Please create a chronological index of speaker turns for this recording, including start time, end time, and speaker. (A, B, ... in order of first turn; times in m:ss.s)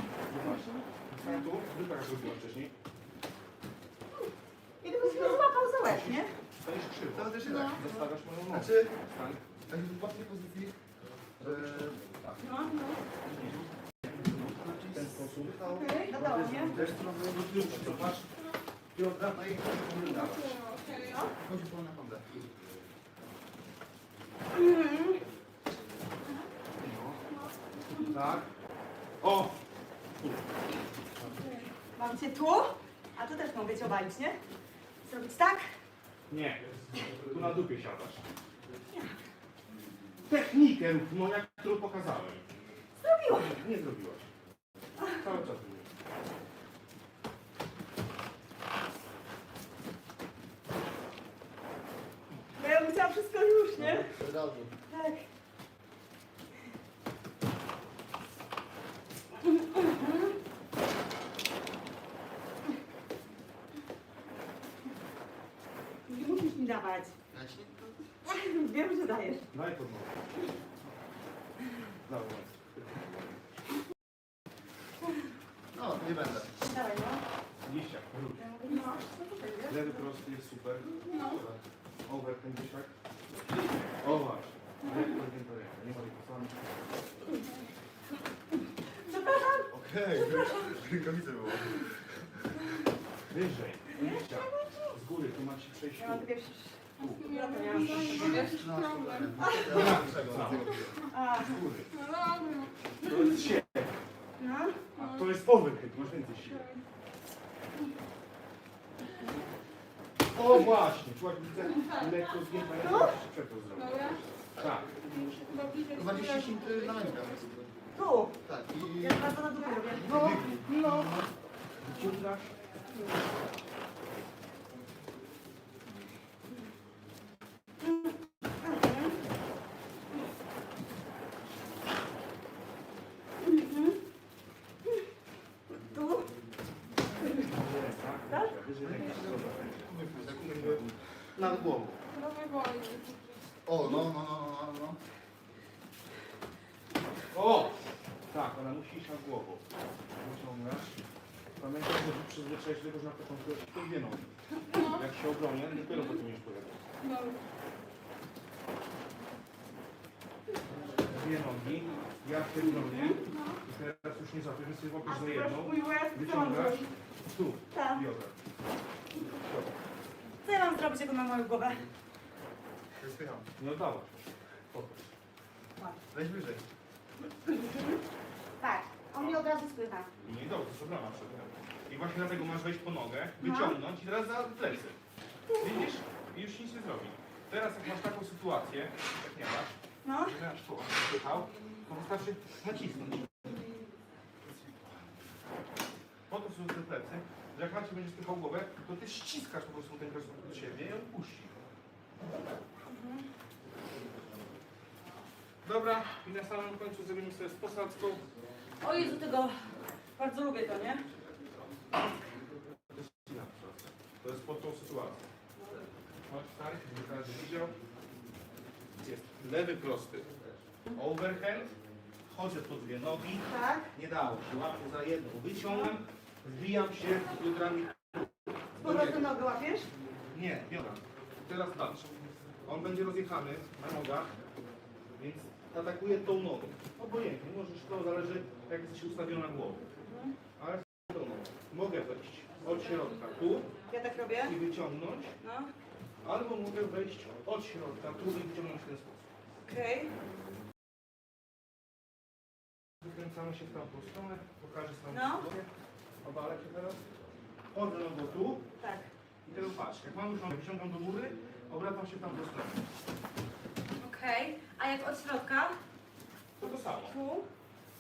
0:00.3-0:02.7 A
0:04.8-0:06.3 B
0:05.8-0:09.4 A
0:07.1-0:07.9 C
0:07.4-0:07.8 D
0:08.5-0:08.9 C
0:09.7-0:10.8 C
0:11.4-0:12.0 C
0:11.4-0:12.4 A
0:12.4-0:13.0 B
0:13.2-0:18.3 A
0:14.1-0:18.2 C
0:15.7-0:16.1 D
0:15.8-0:16.8 B
0:18.9-0:20.6 A
0:19.3-0:19.8 C
0:19.8-0:21.3 D
0:21.4-0:22.3 C
0:24.5-0:25.2 B
0:26.8-0:27.2 A
0:28.0-0:28.5 A
0:29.2-0:29.6 A
0:31.4-0:34.4 B
0:35.0-0:35.7 B
0:36.3-0:38.2 A
0:38.9-0:39.2 B
0:40.3-0:42.4 A
0:43.0-0:43.6 B
0:43.4-0:44.3 A
0:45.1-0:45.9 A
0:52.6-0:54.1 B
0:53.8-0:54.8 C
0:54.9-0:55.3 B
0:59.7-1:00.3 B
1:06.1-1:07.2 B
1:07.3-1:08.1 C
1:08.2-1:09.5 B
1:09.5-1:10.2 A
1:12.0-1:13.4 A
1:15.7-1:16.5 C
1:16.6-1:17.2 B
1:17.6-1:18.5 A
1:18.4-1:20.0 B
1:18.7-1:19.0 D
1:19.7-1:21.0 A
1:21.1-1:21.4 D
1:21.1-1:21.6 C
1:22.1-1:22.9 A
1:24.0-1:26.8 A
1:29.0-1:30.7 B
1:29.7-1:32.5 C
1:33.3-1:36.3 A
1:34.0-1:35.0 B
1:36.0-1:38.0 B
1:37.0-1:38.6 A
1:37.0-1:39.4 D
1:37.9-1:41.0 C
1:39.4-1:39.9 B
1:39.6-1:41.9 A
1:41.1-1:41.6 B
1:41.9-1:43.3 D
1:43.0-1:44.0 A
1:44.4-1:44.8 B
1:45.0-1:45.3 D
1:45.0-1:46.6 A
1:46.4-1:46.8 D
1:50.3-1:54.9 A
1:52.8-1:53.2 B
1:53.8-1:54.2 D
1:54.6-1:54.8 C
1:55.0-1:57.4 D
1:55.9-1:57.7 C
1:58.0-2:00.5 B
1:58.4-1:59.4 C
1:59.9-2:01.3 C
2:00.0-2:01.1 A
2:01.8-2:02.5 A
2:07.8-2:09.2 B
2:13.4-2:14.0 B
2:15.8-2:16.3 B
2:17.3-2:22.0 A
2:18.8-2:21.7 C
2:22.1-2:23.5 D
2:23.7-2:25.0 C
2:27.3-2:27.7 A
2:28.3-2:29.6 A
2:30.2-2:31.0 A
2:31.6-2:36.8 A
2:34.7-2:35.0 D
2:37.0-2:37.4 D
2:41.1-2:48.4 A
2:42.8-2:43.4 B
2:45.0-2:46.9 B
2:47.7-2:48.0 B
2:49.3-2:49.8 A
2:50.4-2:51.9 B
2:53.0-2:53.5 C
2:53.6-2:55.1 A
2:56.1-2:56.6 C
2:57.5-2:58.0 B
2:58.6-3:00.1 B
2:59.2-2:59.4 A
3:00.2-3:05.0 A
3:03.4-3:03.8 B
3:05.5-3:05.9 B
3:05.6-3:13.5 A
3:10.0-3:10.4 B
3:16.3-3:21.6 A
3:22.9-3:23.3 B
3:25.6-3:28.2 A
3:28.8-3:31.1 B
3:32.9-3:35.2 A
3:35.6-3:35.9 B
3:36.3-3:37.8 A
3:39.0-3:40.3 A
3:40.9-3:41.7 A
3:42.3-3:49.3 A
3:43.4-3:43.9 B
3:48.8-3:49.9 B
3:50.3-3:52.1 A
3:52.6-3:54.3 A
3:55.2-3:59.8 A
4:00.0-4:00.4 B
4:00.6-4:03.7 A
4:03.9-4:04.6 B
4:04.5-4:05.4 A
4:05.4-4:05.7 B
4:06.2-4:09.3 A
4:09.7-4:10.1 B
4:13.0-4:15.7 A
4:15.1-4:15.5 B
4:16.2-4:17.0 A
4:17.7-4:18.7 A
4:18.8-4:19.1 B
4:19.4-4:22.8 A
4:24.0-4:25.8 B
4:26.6-4:27.2 A
4:26.6-4:27.5 B